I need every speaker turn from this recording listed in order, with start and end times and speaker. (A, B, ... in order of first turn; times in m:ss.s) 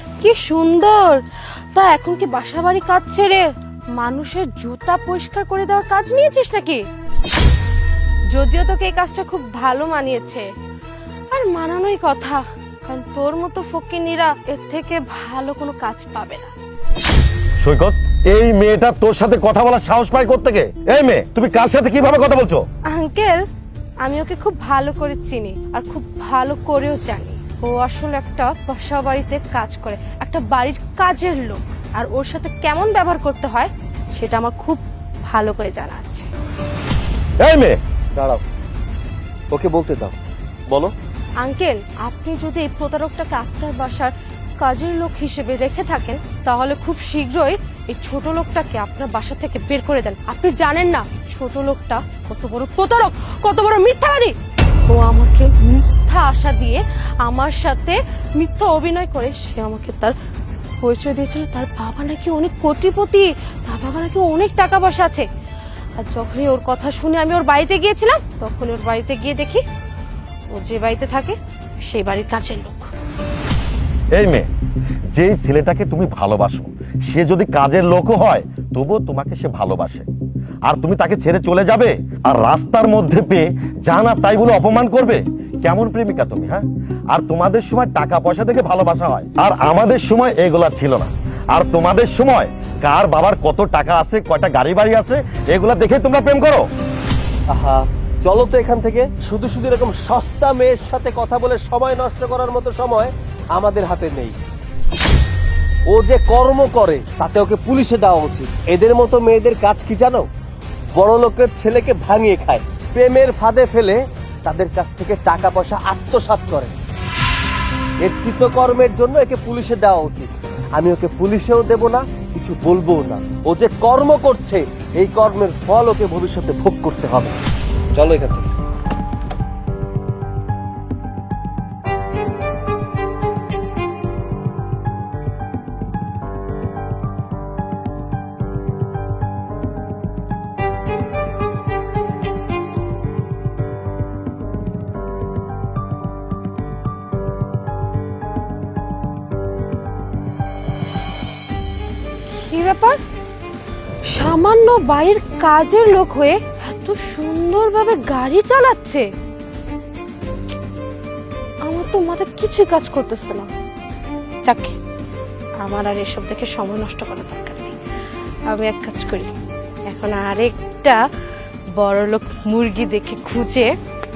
0:00.2-0:03.4 A
0:04.0-0:06.8 A
0:08.3-0:10.5 A
0:11.3-0:16.5 A
0:17.6-0:22.6 B
0:22.9-0:23.4 A
0:24.0-0:36.3 A
0:37.4-0:37.8 B
0:38.1-0:38.4 C
0:39.5-0:40.1 C
0:40.7-0:40.9 C
0:41.4-0:54.4 A
0:54.9-1:00.1 A
1:00.8-1:05.2 A
1:06.0-1:09.6 A
1:10.5-1:12.9 A
1:14.1-1:14.5 B
1:15.1-1:20.1 B
1:20.6-1:36.7 B
1:37.5-1:44.4 C
1:45.9-1:50.3 C
1:50.9-1:56.7 C
1:58.0-2:07.3 C
2:07.9-2:08.5 C
2:32.3-2:33.0 A
2:34.0-2:39.1 A
2:41.6-2:43.5 A
2:44.4-2:44.8 A
2:45.6-2:47.8 A
2:48.5-2:49.3 A
2:49.9-2:51.0 A
2:51.8-2:53.7 A